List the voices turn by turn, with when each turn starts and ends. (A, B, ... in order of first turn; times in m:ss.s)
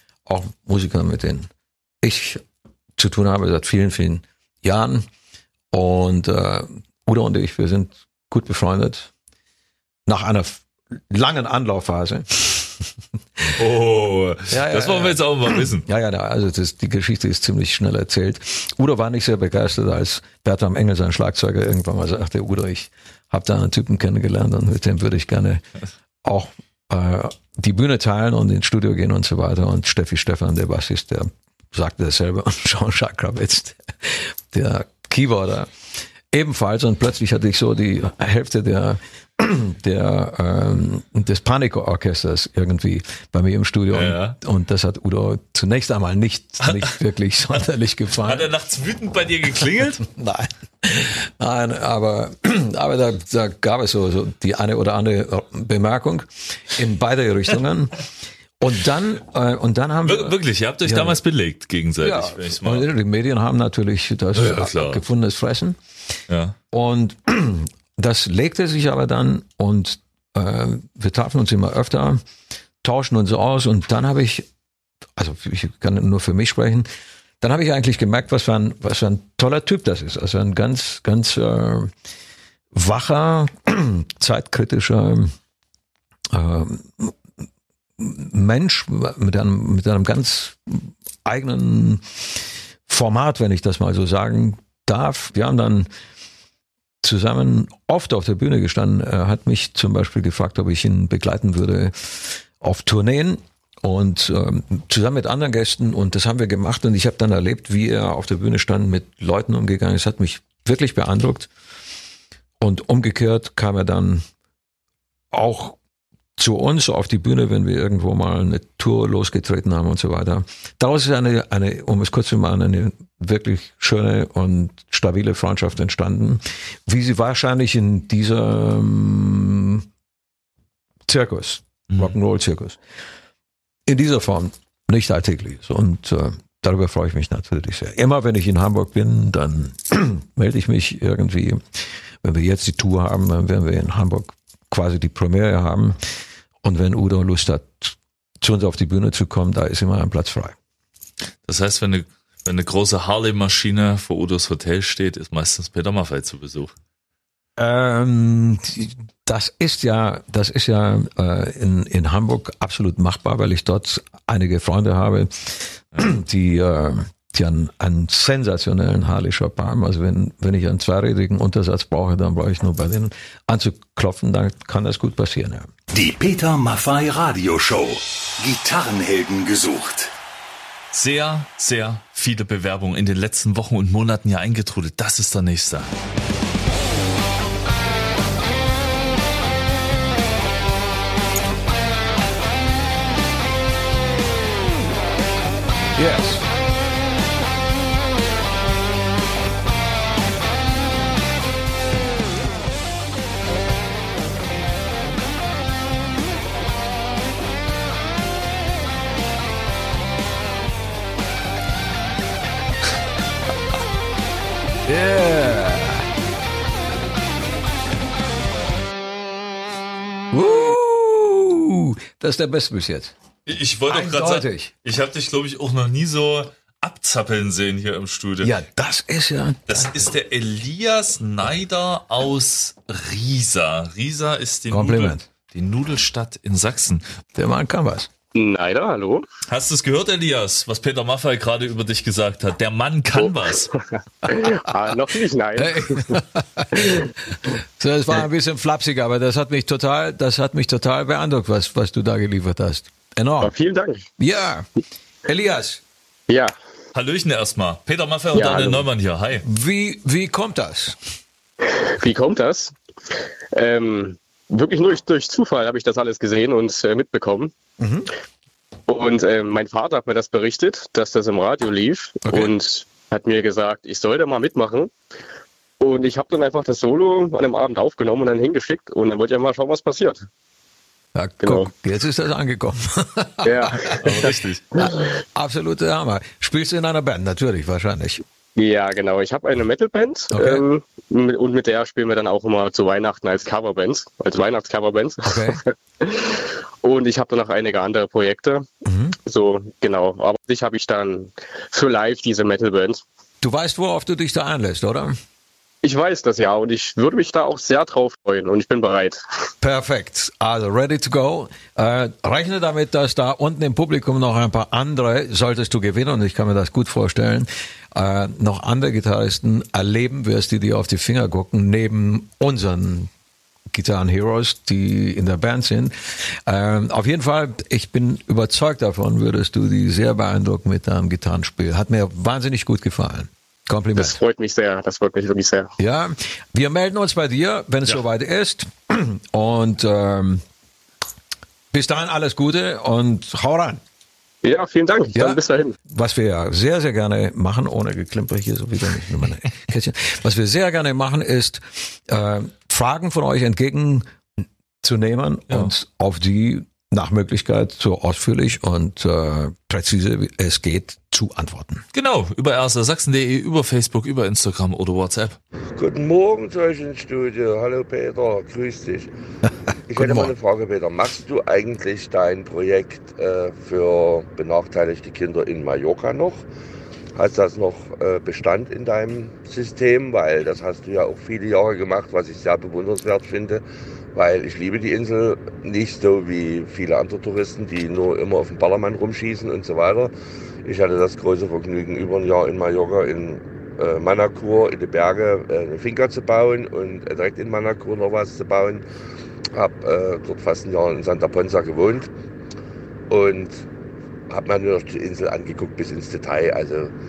0:00.2-0:01.5 A
0:02.0-0:02.4 A
0:03.0-0:05.0 A
0:05.7-0:09.1 A
0:10.1-0:12.9 A
0:13.6-0:15.8 B
0:14.5-0:25.6 A
0:26.2-0:48.5 A
0:43.9-0:44.4 B
0:46.6-0:46.9 B
0:48.2-0:50.0 B
0:50.0-0:58.0 A
0:58.6-1:01.2 A
1:00.0-1:02.9 B
1:02.0-1:05.8 A
1:04.3-1:05.0 B
1:06.3-1:06.6 B
1:06.7-1:12.2 A
1:12.8-1:14.5 A
1:15.2-1:16.9 A
1:17.4-1:21.9 A
1:22.7-1:25.3 A
1:26.3-1:27.2 A
1:28.0-1:35.9 A
1:37.0-1:51.5 A
1:52.6-1:54.2 A
1:55.3-1:55.8 A
1:56.4-2:09.8 A
2:11.1-2:12.8 A
2:11.9-2:12.2 B
2:13.8-2:26.0 A
2:26.6-2:30.6 A
2:31.4-2:36.7 B
2:37.6-2:55.7 A
2:55.9-3:00.1 C
3:00.9-3:05.9 B
3:16.0-3:16.4 A
3:34.8-3:36.1 A
3:40.3-3:43.1 A
3:43.5-3:48.5 B
3:43.9-3:44.7 A
3:48.4-3:50.1 A
3:49.7-3:57.0 B
3:54.7-3:55.2 A
3:57.3-3:58.1 A
3:58.3-3:59.2 D
3:59.5-4:03.7 B
4:04.2-4:06.2 D
4:05.6-4:13.5 A
4:06.7-4:07.1 D
4:13.4-4:14.0 D
4:14.2-4:14.7 A
4:15.2-4:15.8 A
4:16.3-4:16.5 D
4:16.9-4:19.4 B
4:18.3-4:18.8 D
4:19.4-4:21.0 A
4:22.0-4:22.7 D
4:23.5-4:27.5 D
4:27.8-4:28.1 A
4:28.9-4:34.9 D
4:32.2-4:32.5 A
4:35.8-4:40.2 D
4:41.1-4:48.2 A
4:41.4-4:41.7 D
4:43.4-4:44.9 D
4:44.0-4:44.6 B
4:48.6-4:58.6 D
4:50.3-4:50.6 A
4:55.2-4:55.6 A
4:58.8-4:59.2 A
4:59.2-5:03.0 D
5:03.4-5:05.2 A
5:05.8-5:09.2 D
5:09.6-5:23.1 A
5:23.7-5:34.2 A
5:34.0-5:35.7 D
5:35.8-5:40.4 A
5:41.7-5:43.8 A
5:44.4-5:45.7 D
5:45.1-5:54.1 A
5:54.8-6:01.8 A
6:01.9-6:05.4 B
6:05.8-6:09.1 E
6:09.9-6:16.4 E
6:10.0-6:10.3 A
6:17.1-6:30.1 E
6:30.6-6:38.8 E
6:39.5-6:42.1 E
6:43.1-6:43.7 E
6:44.3-6:46.9 E